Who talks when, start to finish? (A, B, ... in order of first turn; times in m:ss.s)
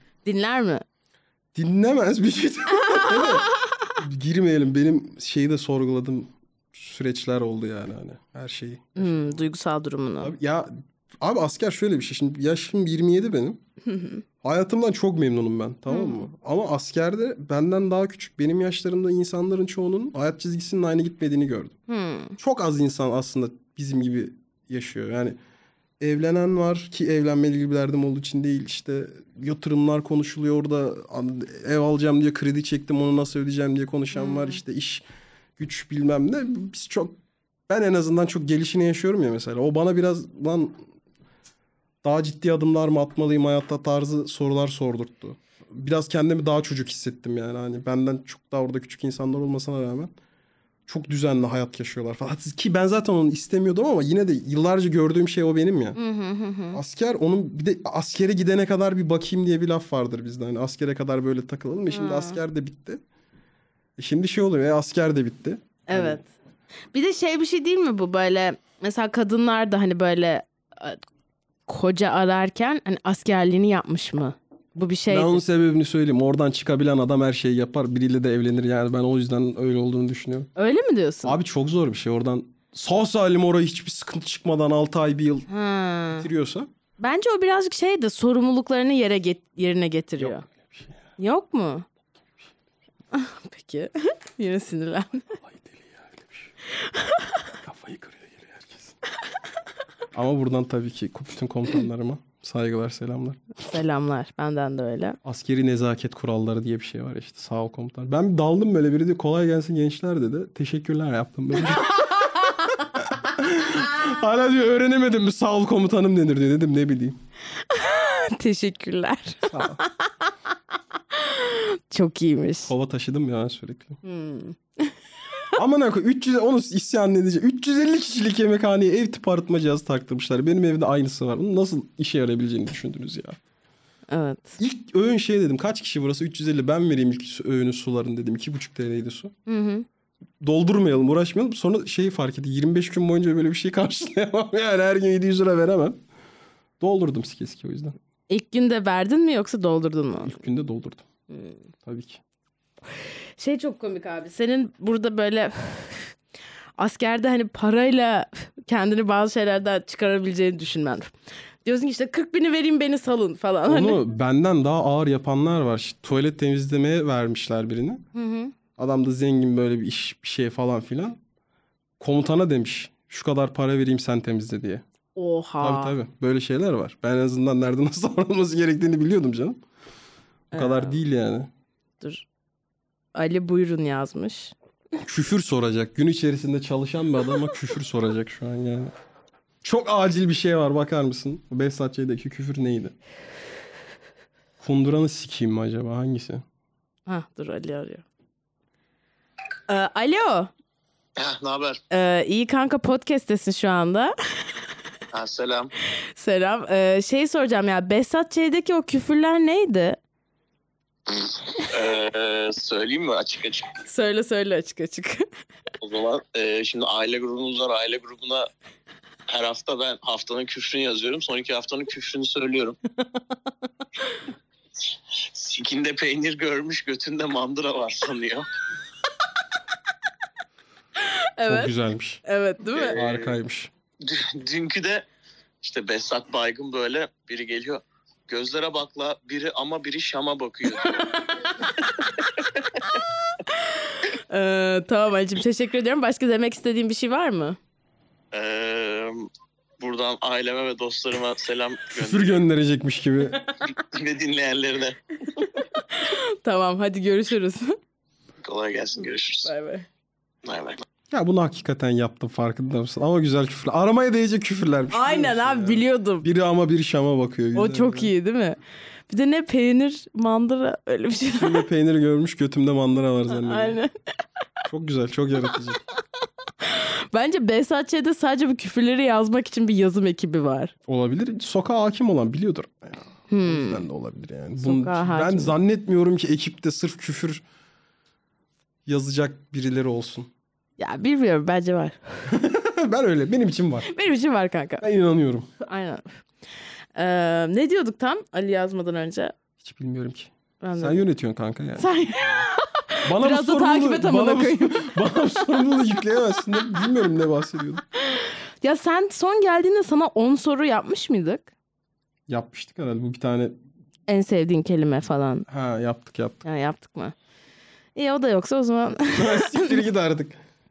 0:00.2-0:00.8 A
0:01.6-0:09.3 B
0:02.8-0:03.9 A
0:09.0-0:10.3 A
0:10.2-0:13.6 B
0:13.9-0:14.2 A
0:14.4-0:21.8 B
0:15.9-0:16.3 A
0:21.9-0:22.4 A
0:22.4-0:25.4 B
0:26.0-0:35.0 B
0:34.1-0:34.6 A
0:35.6-0:37.2 B
0:37.7-0:40.8 B
0:42.0-0:50.1 B
0:50.9-0:56.0 B
0:56.0-0:56.8 A
0:56.7-1:03.0 B
1:01.9-1:02.4 A
1:04.0-1:06.2 B
1:05.9-1:06.3 A
1:06.9-1:11.0 A
1:11.7-1:15.4 A
1:15.1-1:20.5 B
1:20.6-1:21.4 A
1:21.2-1:25.5 B
1:25.5-1:26.3 A
1:26.2-1:26.7 B
1:27.0-1:30.4 A
1:30.2-1:31.0 B
1:31.2-1:31.9 A
1:33.1-1:35.4 A
1:35.4-1:36.5 B
1:36.8-1:37.4 A
1:37.6-1:39.0 B
1:40.1-1:43.4 B
1:43.6-1:45.2 A
1:45.2-1:57.2 B
1:52.1-1:52.7 A
1:57.6-2:00.3 A
1:59.5-1:59.8 B
2:01.1-2:02.7 A
2:02.7-2:04.0 B
2:04.0-2:05.0 A
2:05.6-2:13.4 B
2:14.1-2:14.6 A
2:14.6-2:19.3 B
2:19.5-2:19.9 A
2:20.4-2:26.0 B
2:26.8-2:27.9 B
2:28.3-2:30.4 A
2:30.2-2:31.0 B
2:31.8-2:32.2 B
2:33.4-2:36.2 A
2:36.8-2:41.1 A
2:41.6-2:44.0 A
2:43.7-2:48.0 B
2:48.2-2:48.5 A
2:48.8-2:51.2 B
2:52.0-2:54.8 B
2:55.2-2:56.0 A
2:55.6-2:59.6 B
3:00.5-3:01.0 A
3:00.5-3:01.5 B
3:02.0-3:02.3 A
3:03.2-3:04.5 A
3:05.0-3:08.9 B
3:09.6-3:13.0 B
3:14.6-3:16.4 B
3:17.1-3:18.0 A
3:19.7-3:20.5 A
3:21.2-3:21.8 C
3:21.9-3:24.2 A
3:25.1-3:25.7 C
3:26.2-3:30.0 A
3:31.2-3:33.8 C
3:33.8-3:35.2 A
3:35.8-3:38.5 C
3:39.3-3:42.8 C
3:45.3-3:48.5 C
3:51.0-3:51.7 A
3:51.5-3:52.2 B
3:52.2-3:53.0 A
3:52.7-3:53.4 C
3:52.9-3:53.7 B
3:54.0-3:55.1 C
3:55.6-4:01.2 C
4:00.8-4:02.3 A
4:01.8-4:02.7 C
4:03.5-4:07.6 A
4:08.3-4:09.3 C
4:09.8-4:12.4 C
4:12.0-4:13.4 B
4:13.6-4:15.0 C
4:15.3-4:17.8 A
4:18.4-4:19.5 C
4:19.4-4:19.9 A
4:20.4-4:20.8 C
4:21.1-4:28.1 B
4:24.9-4:26.3 A
4:27.6-4:28.6 A
4:29.1-4:31.6 A
4:31.4-4:33.8 B
4:33.4-4:33.9 A
4:34.7-4:35.8 B
4:36.6-4:40.7 A
4:40.9-4:47.4 B
4:43.3-4:43.8 A
4:44.6-4:45.6 A
4:48.9-4:50.3 B
4:50.8-4:52.0 A
4:52.3-4:53.9 B
4:53.9-4:54.9 A
4:54.8-4:55.5 B
4:55.6-4:56.1 A
4:57.0-4:59.4 A
4:59.6-5:01.9 B
5:00.6-5:01.1 A
5:01.8-5:05.8 A
5:03.0-5:07.8 B
5:08.0-5:11.5 A
5:12.3-5:13.6 B
5:14.1-5:15.5 A
5:15.5-5:16.4 B
5:16.4-5:17.1 A
5:18.0-5:19.8 A
5:19.2-5:20.4 B